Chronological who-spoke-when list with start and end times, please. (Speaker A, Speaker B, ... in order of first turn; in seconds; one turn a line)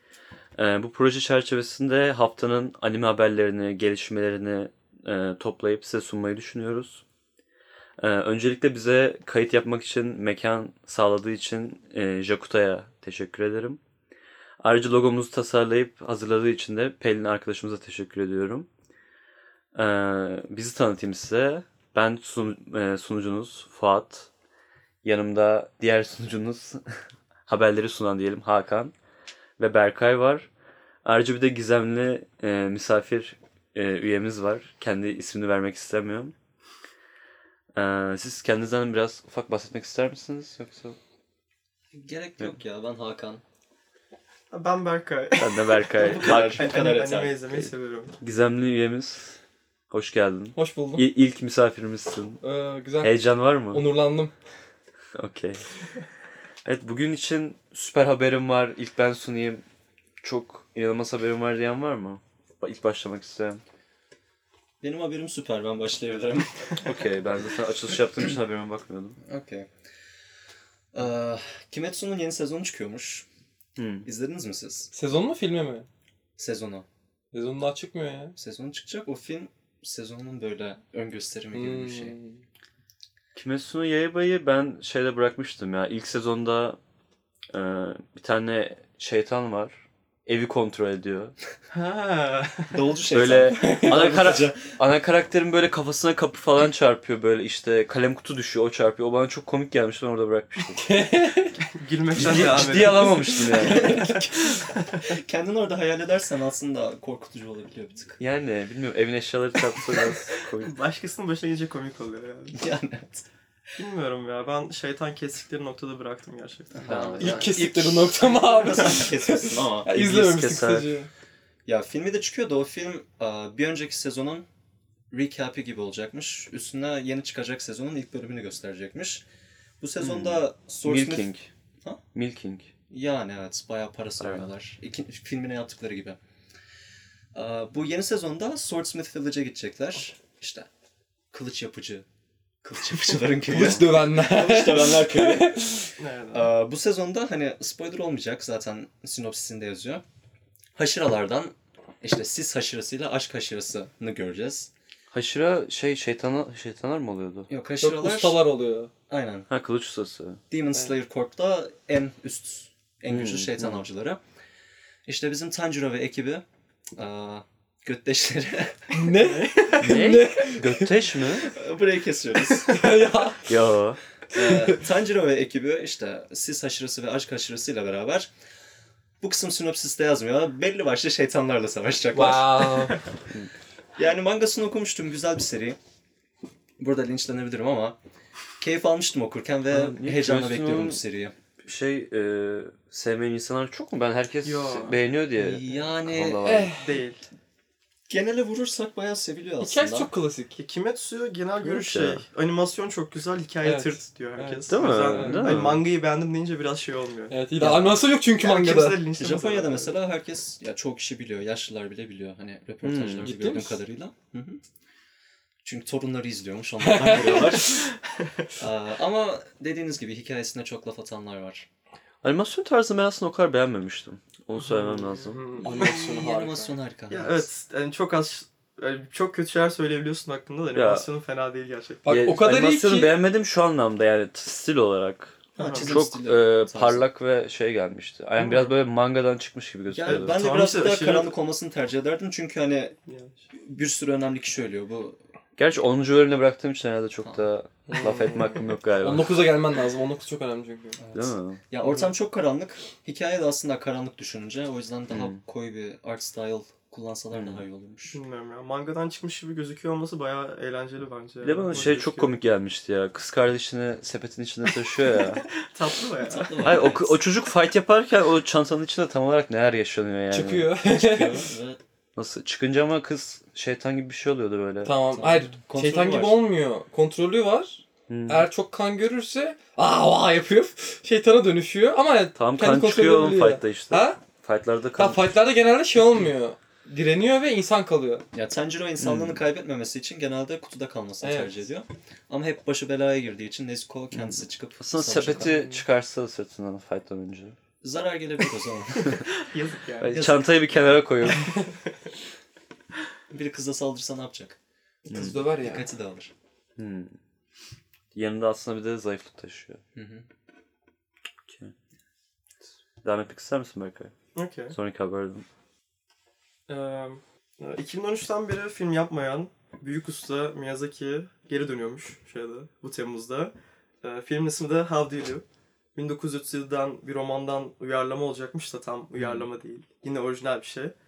Speaker A: 0.6-7.0
Speaker A: 8.0-13.8
Speaker A: 14.6-18.7
Speaker A: 19.7-24.3
Speaker A: 25.0-28.9
Speaker A: 29.6-30.5
Speaker A: 31.0-36.3
Speaker A: 37.7-41.0
Speaker B: 41.9-43.4
Speaker C: 44.5-48.1
Speaker A: 45.4-46.7
Speaker B: 46.1-47.4
Speaker A: 48.2-49.3
Speaker A: 49.9-52.4
Speaker D: 50.5-51.0
Speaker D: 52.4-53.1
Speaker A: 53.0-53.8
Speaker D: 53.7-54.3
Speaker A: 55.1-55.6
Speaker A: 56.6-59.6
Speaker A: 60.2-63.6
Speaker B: 64.8-66.9
Speaker A: 66.8-69.2
Speaker B: 69.2-69.7
Speaker B: 70.9-73.2
Speaker A: 73.8-74.1
Speaker B: 74.0-74.9
Speaker D: 74.9-75.8
Speaker B: 76.4-76.8
Speaker D: 77.3-78.3
Speaker B: 78.3-82.2
Speaker D: 81.5-82.4
Speaker A: 83.3-86.8
Speaker A: 87.5-91.3
Speaker C: 91.7-92.8
Speaker B: 92.7-94.7
Speaker A: 93.1-100.8
Speaker D: 93.6-94.0
Speaker D: 100.8-101.6
Speaker C: 101.7-105.0
Speaker A: 102.2-104.2
Speaker D: 102.3-104.2
Speaker B: 103.7-108.2
Speaker A: 108.2-110.8
Speaker C: 110.1-112.6
Speaker B: 112.5-113.3
Speaker C: 113.8-116.9
Speaker B: 116.7-119.9
Speaker A: 116.9-117.4
Speaker D: 117.2-121.1
Speaker A: 119.9-121.0
Speaker B: 121.7-124.5
Speaker B: 125.1-129.2
Speaker B: 129.8-131.3
Speaker A: 130.0-131.5
Speaker A: 132.1-132.7
Speaker B: 132.9-136.2
Speaker A: 134.2-134.4
Speaker B: 137.3-140.7
Speaker B: 141.3-142.1
Speaker B: 142.6-145.7
Speaker D: 143.5-145.9
Speaker C: 146.0-146.5
Speaker B: 146.3-150.0
Speaker B: 150.7-154.7
Speaker A: 155.1-157.5
Speaker B: 157.5-158.4
Speaker D: 157.8-158.9
Speaker B: 159.1-159.5
Speaker A: 159.5-160.4
Speaker B: 160.5-164.2
Speaker A: 163.1-163.8
Speaker B: 165.1-169.0
Speaker D: 168.9-170.9
Speaker C: 169.1-170.0
Speaker A: 169.8-171.5
Speaker B: 171.4-172.8
Speaker D: 172.6-173.5
Speaker A: 173.4-174.0
Speaker B: 174.3-178.3
Speaker D: 174.3-174.8
Speaker B: 179.2-182.9
Speaker D: 182.1-183.0
Speaker B: 184.0-185.8
Speaker B: 186.8-187.9
Speaker B: 188.6-191.3
Speaker A: 189.7-191.0
Speaker A: 191.6-196.7
Speaker C: 194.4-195.0
Speaker B: 195.3-196.5
Speaker D: 196.4-197.0
Speaker C: 196.7-197.2
Speaker B: 198.1-200.1
Speaker D: 199.6-200.6
Speaker C: 200.6-207.7
Speaker A: 201.6-202.2
Speaker D: 203.6-205.6
Speaker A: 204.7-205.8
Speaker D: 207.3-209.0
Speaker B: 207.6-207.9
Speaker C: 208.4-209.9
Speaker B: 209.1-214.6
Speaker A: 212.8-213.3
Speaker D: 213.2-213.8
Speaker B: 215.6-217.9
Speaker D: 216.8-217.8
Speaker C: 217.8-218.5
Speaker B: 218.6-221.7
Speaker A: 222.2-225.4
Speaker D: 224.7-226.8
Speaker C: 225.5-225.9
Speaker B: 225.6-227.5
Speaker C: 227.1-232.0
Speaker A: 230.7-231.1
Speaker D: 232.0-233.2
Speaker A: 232.1-240.4
Speaker B: 235.6-237.0
Speaker C: 235.6-235.9
Speaker C: 238.4-238.7
Speaker B: 239.9-243.0
Speaker C: 240.1-241.3
Speaker C: 243.1-243.4
Speaker B: 243.5-245.2
Speaker A: 245.6-249.4
Speaker D: 247.9-251.0
Speaker C: 247.9-248.6
Speaker B: 251.0-258.2
Speaker A: 251.1-251.6
Speaker A: 255.1-255.4
Speaker A: 257.3-257.6
Speaker C: 258.1-262.4
Speaker A: 261.4-265.4
Speaker C: 265.6-266.8
Speaker B: 266.2-267.2
Speaker A: 266.6-270.7
Speaker D: 270.3-271.5
Speaker B: 270.8-271.8
Speaker A: 272.1-274.9
Speaker D: 274.8-284.2
Speaker B: 275.1-276.4
Speaker A: 278.1-278.4
Speaker A: 282.4-285.2
Speaker D: 285.0-288.2
Speaker B: 288.3-295.6
Speaker A: 289.0-289.4
Speaker D: 291.2-291.6
Speaker A: 294.2-297.6
Speaker D: 295.5-295.8
Speaker B: 297.8-299.3
Speaker C: 299.4-300.2
Speaker A: 300.0-301.5
Speaker B: 300.1-300.9
Speaker B: 303.3-304.6
Speaker D: 305.1-305.9
Speaker A: 305.1-305.4
Speaker B: 305.2-306.3
Speaker A: 306.8-307.1
Speaker A: 308.1-309.8
Speaker B: 309.9-310.2
Speaker A: 311.5-311.7
Speaker A: 313.0-314.1
Speaker C: 314.3-314.8
Speaker A: 314.7-315.4
Speaker C: 316.7-325.4
Speaker C: 325.9-330.9
Speaker A: 329.2-329.4